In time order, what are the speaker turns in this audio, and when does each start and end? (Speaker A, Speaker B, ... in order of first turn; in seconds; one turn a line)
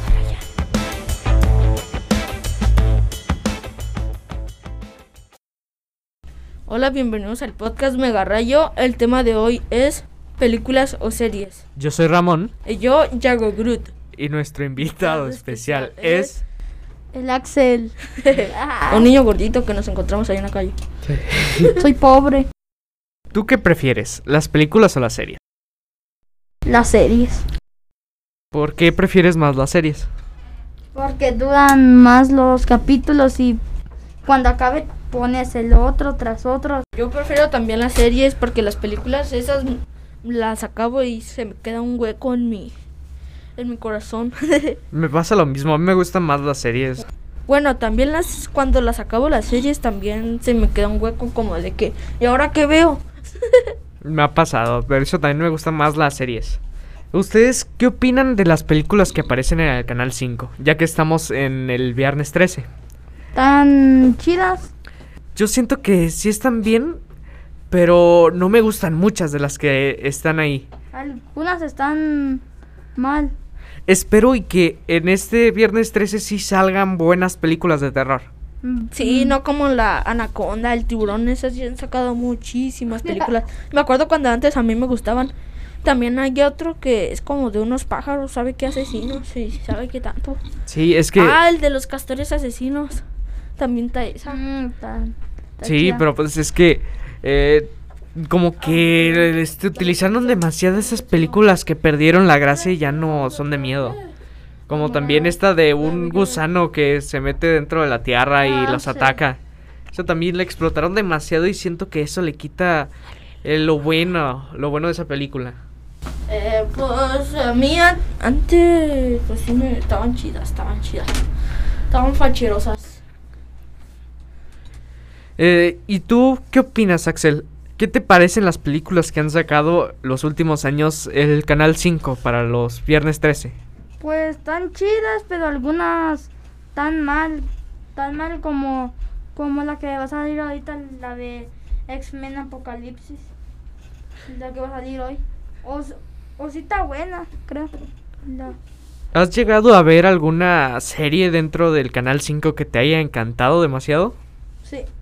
Speaker A: 0.1-0.4
Speaker A: 6.7-11.6
Speaker B: 11.8-12.5
Speaker A: 12.7-13.9
Speaker B: 14.1-16.4
Speaker A: 15.0-16.4
Speaker C: 17.1-19.1
Speaker A: 18.2-20.8
Speaker B: 21.0-21.7
Speaker C: 21.6-22.5
Speaker B: 23.3-25.4
Speaker C: 26.6-27.4
Speaker B: 28.5-30.1
Speaker C: 30.9-33.6
Speaker C: 34.2-36.8
Speaker A: 37.0-42.7
Speaker A: 43.5-44.8
Speaker B: 44.9-47.0
Speaker A: 47.5-53.0
Speaker B: 54.0-56.6
Speaker B: 57.1-62.7
Speaker C: 63.3-64.7
Speaker B: 65.3-67.0
Speaker B: 67.7-70.7
Speaker C: 70.9-72.4
Speaker C: 73.0-73.3
Speaker B: 73.9-78.3
Speaker C: 78.6-79.4
Speaker A: 78.9-85.3
Speaker A: 85.8-90.4
Speaker B: 90.7-91.4
Speaker A: 91.1-93.0
Speaker A: 93.6-94.4
Speaker C: 94.3-96.0
Speaker B: 95.6-104.0
Speaker A: 98.6-101.5
Speaker A: 102.5-104.1
Speaker B: 104.7-109.4
Speaker C: 104.7-105.3
Speaker A: 105.8-106.4
Speaker A: 108.4-109.2
Speaker B: 109.9-112.9
Speaker B: 113.4-115.6
Speaker A: 116.3-121.1
Speaker A: 121.9-123.0
Speaker B: 125.4-133.6
Speaker C: 134.0-143.3
Speaker C: 144.2-147.7
Speaker C: 148.2-148.6
Speaker B: 149.1-154.2